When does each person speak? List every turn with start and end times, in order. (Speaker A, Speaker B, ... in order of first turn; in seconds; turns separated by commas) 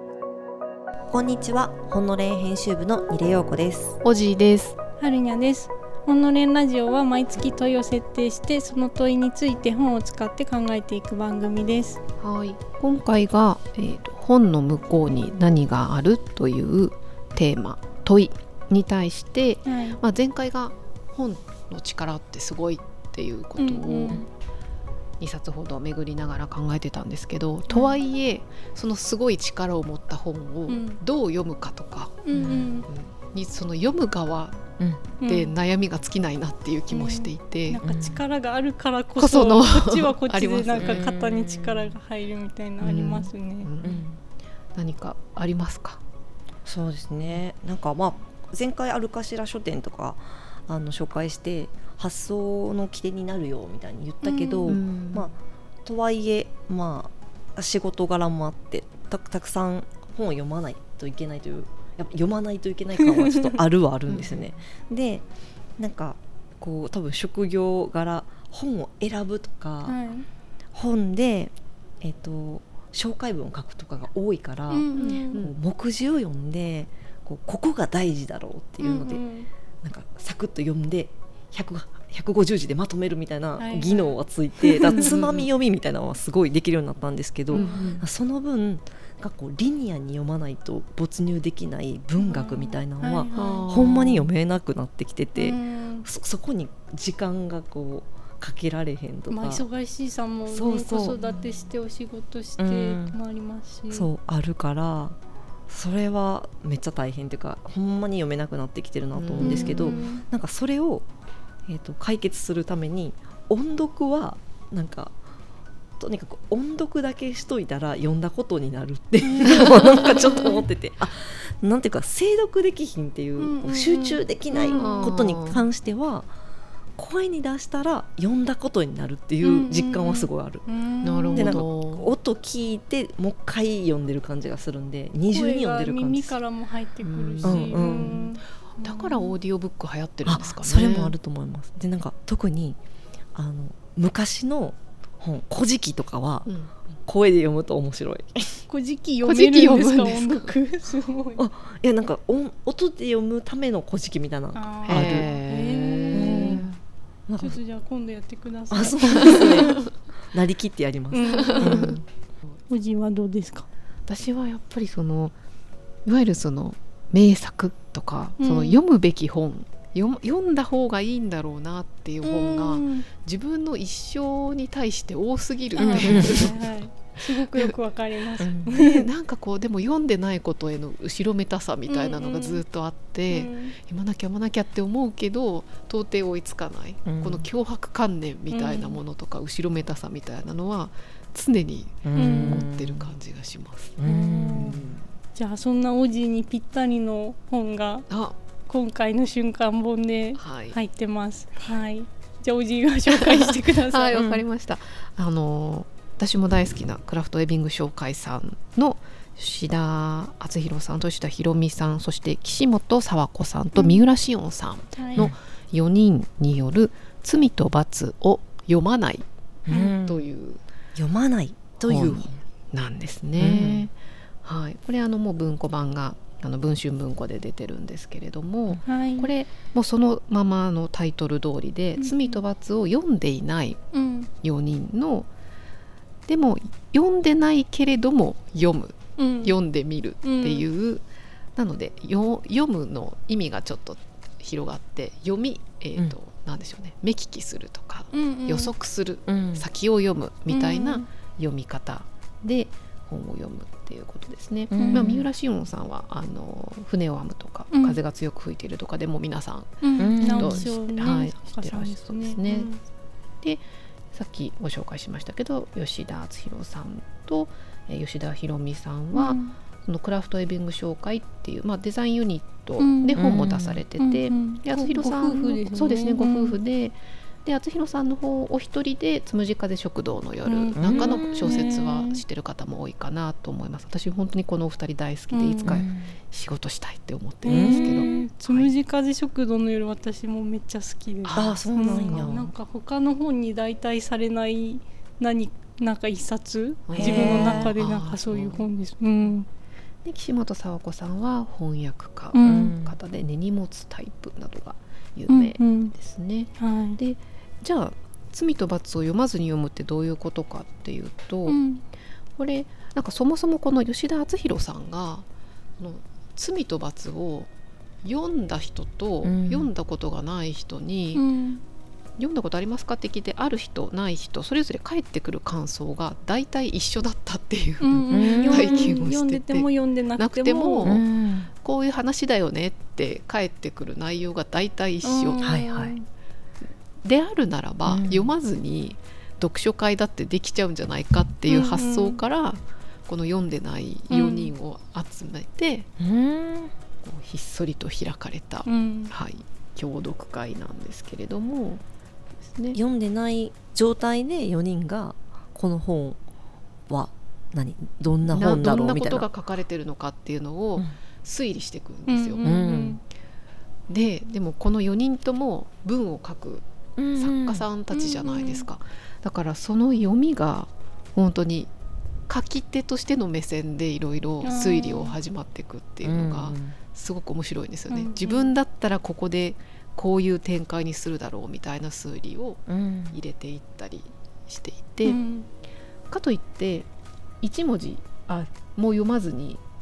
Speaker A: 1.1-4.0, Speaker B: 4.0-4.8, Speaker C: 5.0-12.0, Speaker B: 12.2-24.2, Speaker C: 19.6-20.0, Speaker C: 23.6-24.2, Speaker B: 25.2-37.8, Speaker C: 27.7-27.9, Speaker C: 30.7-31.0, Speaker C: 32.2-32.9, Speaker C: 35.2-35.5, Speaker C: 36.9-43.7, Speaker A: 37.8-38.2, Speaker B: 39.2-41.0, Speaker A: 40.8-41.9, Speaker B: 42.8-44.0, Speaker A: 43.8-44.2, Speaker B: 44.7-46.0, Speaker A: 46.6-65.2, Speaker C: 54.2-54.8, Speaker B: 54.6-55.3, Speaker C: 63.0-63.6, Speaker B: 64.1-64.5, Speaker A: 65.8-70.0, Speaker C: 69.8-70.2, Speaker A: 70.7-79.2, Speaker C: 74.7-75.4, Speaker B: 74.9-75.5, Speaker C: 78.8-79.5, Speaker A: 79.8-99.6, Speaker C: 83.6-84.2, Speaker B: 84.8-85.5, Speaker C: 87.5-88.0, Speaker B: 87.5-88.0, Speaker C: 92.2-93.7, Speaker B: 93.3-94.3, Speaker C: 95.3-96.1, Speaker C: 99.3-104.1, Speaker A: 100.5-101.2, Speaker A: 102.6-103.2, Speaker A: 103.9-105.2, Speaker A: 105.7-111.1, Speaker B: 109.1-110.0, Speaker C: 109.4-110.2, Speaker A: 111.7-115.2, Speaker A: 116.0-126.3, Speaker C: 119.2-120.6, Speaker C: 123.4-125.0, Speaker B: 124.6-125.6, Speaker A: 127.0-130.6, Speaker C: 129.4-131.6, Speaker B: 131.0-132.1, Speaker A: 131.3-136.3, Speaker C: 135.3-139.3, Speaker B: 137.0-141.1, Speaker A: 137.4-138.2, Speaker A: 140.2-142.8, Speaker A: 143.3-146.5, Speaker B: 146.4-146.7, Speaker A: 147.0-148.6, Speaker C: 148.7-151.4, Speaker B: 149.2-150.5, Speaker A: 151.4-155.3, Speaker C: 154.5-156.7, Speaker B: 154.8-156.8, Speaker A: 156.1-156.7, Speaker A: 157.3-157.6, Speaker C: 157.4-159.8, Speaker A: 158.7-162.0, Speaker C: 161.1-161.9, Speaker B: 161.3-162.0, Speaker C: 162.7-163.7, Speaker B: 164.1-165.3, Speaker B: 166.0-176.8, Speaker C: 168.4-168.8, Speaker C: 172.2-173.1, Speaker C: 175.8-179.1, Speaker A: 175.8-176.5, Speaker B: 177.4-177.7, Speaker A: 178.4-178.8, Speaker B: 178.7-194.0, Speaker C: 181.9-182.6, Speaker C: 183.3-183.7, Speaker A: 187.1-187.4, Speaker C: 188.5-189.0, Speaker A: 192.0-193.1, Speaker C: 192.1-192.6, Speaker A: 194.0-195.0, Speaker C: 194.0-194.8, Speaker B: 194.5-195.0, Speaker C: 195.3-198.1, Speaker B: 198.1-198.3, Speaker C: 198.7-204.2, Speaker B: 200.4-200.8, Speaker B: 203.1-219.2, Speaker A: 204.1-204.4, Speaker C: 214.9-215.3, Speaker A: 219.7-220.2, Speaker C: 219.7-220.0, Speaker B: 219.9-220.6, Speaker A: 220.9-222.4, Speaker B: 221.8-223.9, Speaker A: 223.3-223.9, Speaker B: 224.4-233.8, Speaker C: 228.8-229.3, Speaker C: 232.0-232.4, Speaker C: 233.9-234.3, Speaker B: 234.4-235.3, Speaker B: 236.3-262.7, Speaker C: 239.2-239.5, Speaker C: 240.2-240.6, Speaker C: 248.1-248.7, Speaker A: 249.3-249.7, Speaker C: 250.5-251.1, Speaker A: 254.7-255.2, Speaker C: 254.7-255.2, Speaker C: 257.7-258.0, Speaker C: 259.8-262.8, Speaker A: 260.0-260.6, Speaker B: 263.4-288.7, Speaker C: 269.1-269.5, Speaker C: 272.8-273.2, Speaker A: 273.1-273.8, Speaker C: 274.0-276.5, Speaker C: 280.4-282.2, Speaker A: 280.8-281.6, Speaker C: 285.3-285.8, Speaker A: 285.6-286.1, Speaker C: 287.4-299.5, Speaker A: 287.5-288.3, Speaker B: 291.2-292.4, Speaker A: 291.3-292.5, Speaker B: 296.9-298.7, Speaker A: 296.9-297.7, Speaker B: 300.0-311.6, Speaker C: 302.3-302.8, Speaker A: 302.4-303.0, Speaker C: 305.3-305.9, Speaker C: 306.6-307.0, Speaker C: 311.4-311.8, Speaker B: 312.4-315.2, Speaker B: 315.8-317.5, Speaker B: 318.0-321.2, Speaker A: 319.2-319.7, Speaker C: 321.1-321.6, Speaker B: 322.2-331.0, Speaker C: 327.8-331.0, Speaker A: 328.1-329.0, Speaker A: 330.8-331.5, Speaker B: 331.6-335.9, Speaker C: 335.0-336.0, Speaker A: 335.4-335.8, Speaker B: 337.0-345.9, Speaker A: 337.9-338.3, Speaker C: 341.5-342.2, Speaker C: 344.1-344.5, Speaker A: 346.0-346.7, Speaker B: 347.0-351.8, Speaker C: 348.6-349.1, Speaker B: 352.5-352.8, Speaker A: 352.7-356.2, Speaker A: 356.9-359.2, Speaker B: 358.3-362.4, Speaker C: 362.1-363.0, Speaker A: 362.4-363.0, Speaker B: 363.9-371.7, Speaker A: 367.0-367.6, Speaker C: 367.9-368.6, Speaker B: 372.3-385.2, Speaker C: 374.4-375.1, Speaker A: 376.0-376.8, Speaker C: 377.9-378.5, Speaker A: 382.7-383.2, Speaker C: 385.0-385.5, Speaker B: 386.1-386.9, Speaker B: 387.4-389.6